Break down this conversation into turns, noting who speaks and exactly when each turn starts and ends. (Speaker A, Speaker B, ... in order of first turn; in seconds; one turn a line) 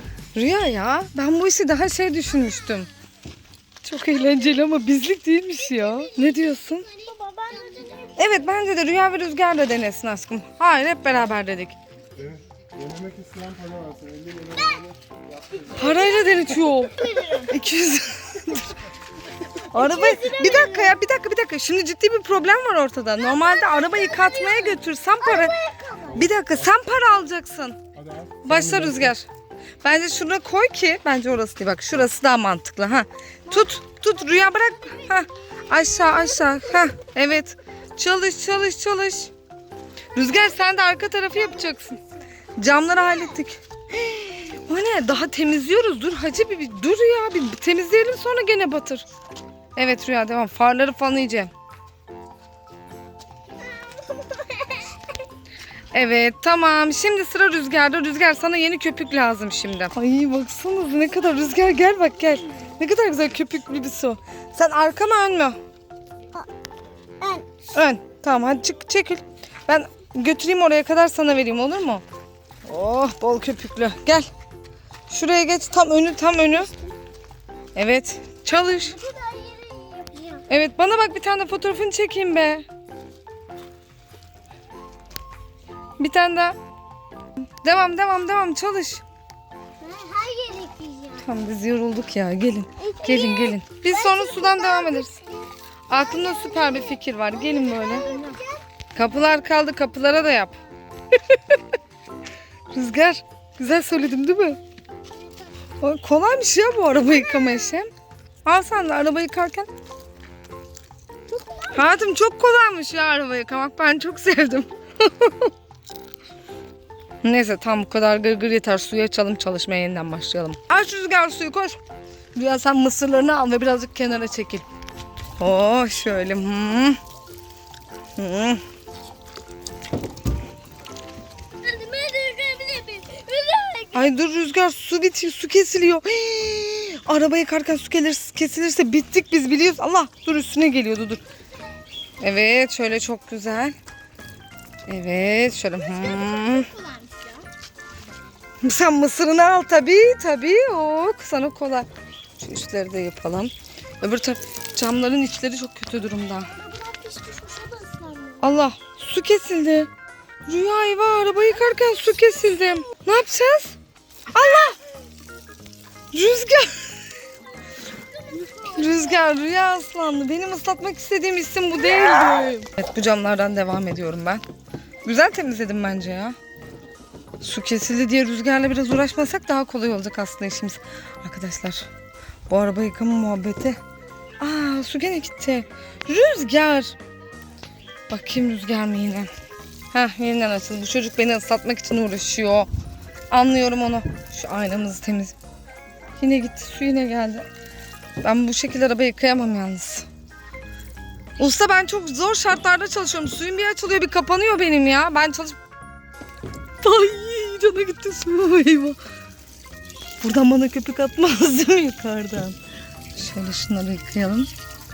Speaker A: 0.3-2.9
Speaker A: 3.8-6.9
Speaker B: 5.7-8.4
Speaker A: 8.2-11.8
Speaker C: 12.1-16.2
Speaker A: 15.7-18.8
Speaker B: 15.8-17.5
Speaker A: 19.7-25.5
Speaker B: 19.7-21.0
Speaker B: 23.2-26.3
Speaker A: 26.1-27.8
Speaker C: 27.9-29.1
Speaker A: 28.4-29.3
Speaker A: 29.8-39.3
Speaker B: 34.4-35.1
Speaker B: 35.9-36.8
Speaker A: 40.1-42.0
Speaker B: 41.4-42.0
Speaker A: 42.6-49.0
Speaker A: 49.8-51.5
Speaker B: 53.7-54.9
Speaker A: 55.9-65.6
Speaker B: 67.2-67.5
Speaker A: 67.7-72.0
Speaker A: 72.7-74.3
Speaker A: 75.1-76.7
Speaker A: 77.7-79.0
Speaker B: 78.6-80.4
Speaker A: 80.5-82.6
Speaker A: 86.0-86.5
Speaker A: 87.6-89.0
Speaker B: 89.8-91.3
Speaker A: 91.2-95.2
Speaker B: 92.8-95.2
Speaker A: 95.9-98.4
Speaker B: 95.9-98.6
Speaker A: 98.9-100.6
Speaker A: 101.2-101.6
Speaker A: 102.7-104.6
Speaker B: 105.1-105.5
Speaker A: 105.8-107.9
Speaker B: 107.0-107.8
Speaker A: 108.4-109.7
Speaker B: 111.3-112.0
Speaker A: 111.7-115.5
Speaker A: 117.2-121.8
Speaker A: 122.3-124.6
Speaker A: 125.4-127.0
Speaker A: 128.2-128.6
Speaker B: 131.6-134.1
Speaker A: 133.9-141.2
Speaker A: 142.2-143.7
Speaker A: 144.9-146.7
Speaker B: 145.8-147.4
Speaker A: 148.6-151.9
Speaker A: 152.4-156.5
Speaker B: 156.5-158.5
Speaker A: 158.4-159.9
Speaker A: 160.4-163.8
Speaker B: 161.8-162.7
Speaker A: 164.3-164.8
Speaker A: 166.1-166.8
Speaker B: 167.9-169.2
Speaker A: 168.6-174.4
Speaker A: 175.0-176.3
Speaker A: 177.4-181.9
Speaker A: 182.5-183.8
Speaker A: 184.4-186.9
Speaker A: 188.1-189.3
Speaker A: 189.9-192.7
Speaker A: 193.3-195.3
Speaker A: 196.2-197.5
Speaker A: 198.2-200.1
Speaker A: 201.4-205.6
Speaker A: 206.8-209.0
Speaker A: 210.2-212.6
Speaker A: 213.1-214.5